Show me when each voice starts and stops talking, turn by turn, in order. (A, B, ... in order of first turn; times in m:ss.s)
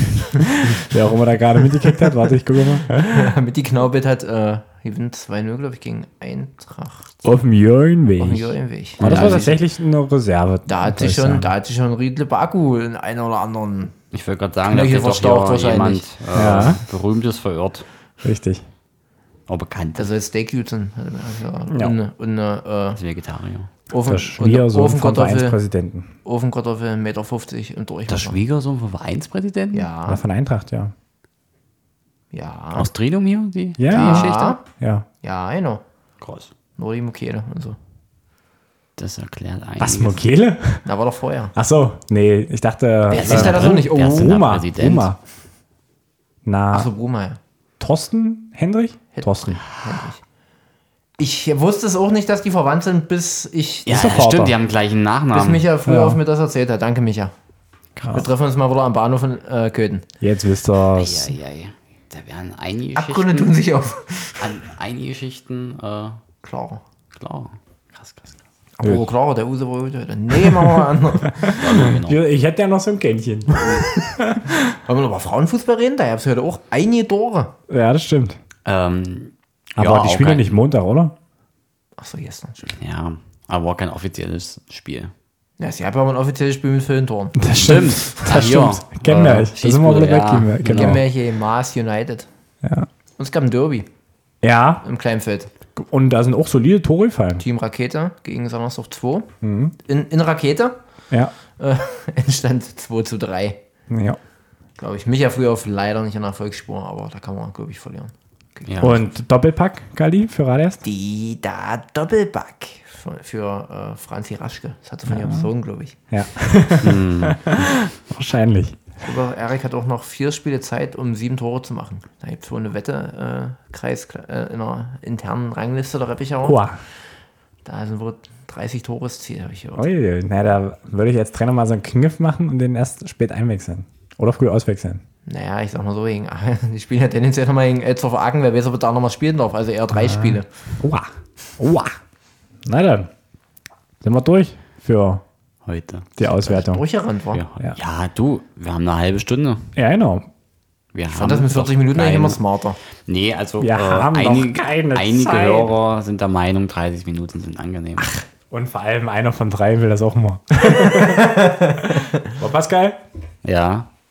0:00.4-0:00.8 A
0:00.7-0:03.3 B
0:01.8-0:02.1 A
0:02.9-0:07.1 A
0:07.2-0:11.5 B
0:08.2-0:09.6 A
0:09.0-0:09.5 C
0:10.7-0:14.0 A
0:14.1-0:17.8 C
0:14.6-0:16.0 A
0:16.3-0:16.8 B
0:18.2-0:18.6 B
0:19.5-0:20.1 C
0:19.9-0:23.0 A
0:21.7-0:22.0 B
0:23.0-0:23.7 C
0:23.9-0:25.6 A
0:24.0-0:26.1 B
0:26.2-0:28.4 A
0:28.1-0:29.9 C
0:29.7-0:30.2 A
0:30.0-0:30.9 B
0:32.3-0:32.9 A
0:32.7-0:34.6 C
0:33.8-0:35.1 B
0:33.9-0:34.6 A
0:35.2-0:35.8 A
0:36.2-0:36.5 C
0:36.8-0:37.8 A
0:39.0-0:40.2 C
0:39.8-0:40.8 B
0:40.8-0:41.5 A
0:41.5-0:45.2 B
0:43.1-0:44.3 A
0:43.1-0:45.1 C
0:46.4-0:46.9 B
0:46.7-0:47.4 A
0:47.8-0:49.6 B
0:49.1-0:50.2 A
0:51.2-0:54.1 A
0:53.8-0:55.7 C
0:53.9-0:54.6 B
0:55.3-0:57.3 A
0:55.8-0:56.2 B
0:58.1-1:00.0 A
1:00.2-1:01.3 B
1:00.9-1:03.5 C
1:03.0-1:04.5 A
1:04.4-1:06.2 C
1:06.4-1:06.8 A
1:07.1-1:08.4 C
1:08.8-1:11.9 A
1:10.4-1:10.8 B
1:11.3-1:14.6 B
1:11.6-1:12.2 C
1:14.8-1:17.5 A
1:17.7-1:18.4 B
1:18.6-1:20.5 C
1:19.8-1:21.1 B
1:22.0-1:22.7 A
1:22.8-1:25.1 C
1:25.6-1:27.4 A
1:27.4-1:31.0 B
1:27.5-1:31.0 C
1:30.6-1:32.3 A
1:32.6-1:32.9 B
1:33.2-1:33.9 A
1:34.4-1:34.8 B
1:34.8-1:35.5 A
1:35.8-1:37.4 B
1:37.4-1:39.3 A
1:39.4-1:39.7 B
1:39.8-1:40.8 A
1:41.6-1:43.6 A
1:43.9-1:44.2 B
1:44.8-1:49.0 A
1:48.7-1:49.0 C
1:48.8-1:50.8 B
1:50.8-1:56.0 A
1:55.1-1:55.5 B
1:56.1-1:58.9 B
1:56.8-1:57.6 C
1:59.0-2:06.6 A
2:06.4-2:06.8 B
2:07.6-2:09.8 A
2:09.8-2:15.0 B
2:15.2-2:20.5 A
2:19.9-2:22.0 B
2:22.6-2:23.1 B
2:24.0-2:25.2 B
2:25.6-2:26.1 C
2:26.2-2:26.8 B
2:26.2-2:27.4 A
2:27.3-2:29.7 C
2:29.7-2:30.3 B
2:30.9-2:32.4 C
2:31.1-2:32.8 A
2:33.0-2:38.1 C
2:33.6-2:35.7 B
2:38.0-2:43.0 B
2:40.6-2:42.3 A
2:43.4-2:43.9 C